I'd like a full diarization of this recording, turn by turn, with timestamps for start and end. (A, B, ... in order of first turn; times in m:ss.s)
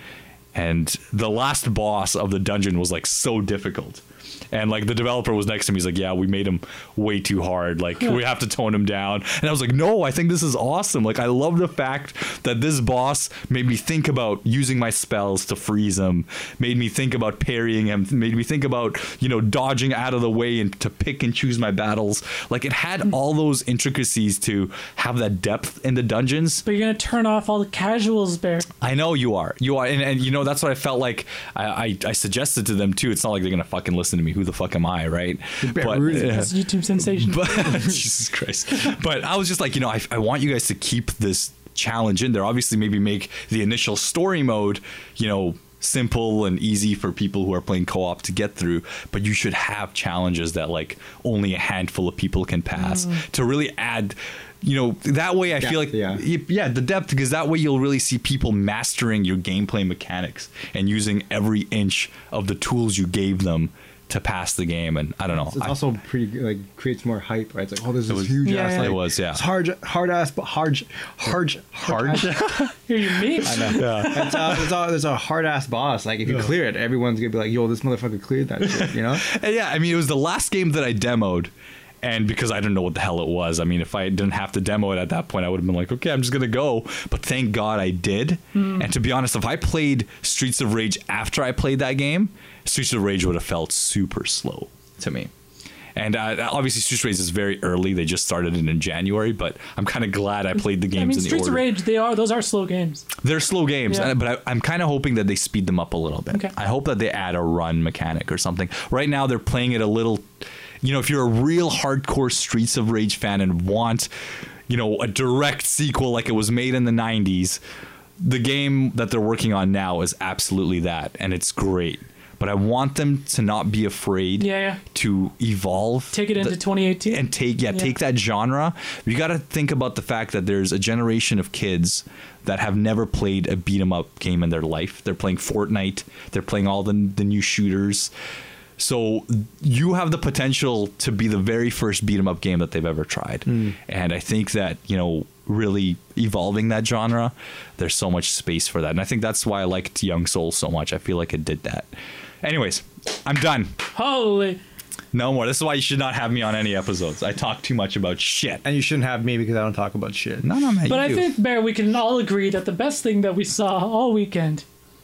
0:00.5-0:26.6 A
0:26.6-0:28.7 B
0:28.8-1:05.8 A
0:35.6-0:36.5 C
0:36.1-0:38.0 B
0:52.8-0:53.2 B
0:55.6-0:56.2 C
1:05.4-1:12.5 C
1:08.1-1:09.4 A
1:08.4-1:09.0 B
1:11.8-1:14.7 A
1:12.3-1:14.5 B
1:13.4-1:19.2 C
1:18.7-1:21.5 A
1:22.0-1:35.3 A
1:28.5-1:28.9 B
1:36.0-1:41.6 A
1:40.5-1:43.1 B
1:43.2-1:50.3 A
1:43.9-1:44.1 B
1:50.8-1:54.1 A
1:54.7-1:57.6 A
1:58.2-2:18.1 A
2:04.4-2:04.8 B
2:06.1-2:07.9 B
2:18.8-2:31.9 A
2:23.5-2:23.7 C
2:32.4-2:33.7 A
2:33.9-2:34.6 B
2:35.1-2:38.6 A
2:38.6-2:40.4 C
2:40.4-2:41.3 A
2:40.9-2:44.6 B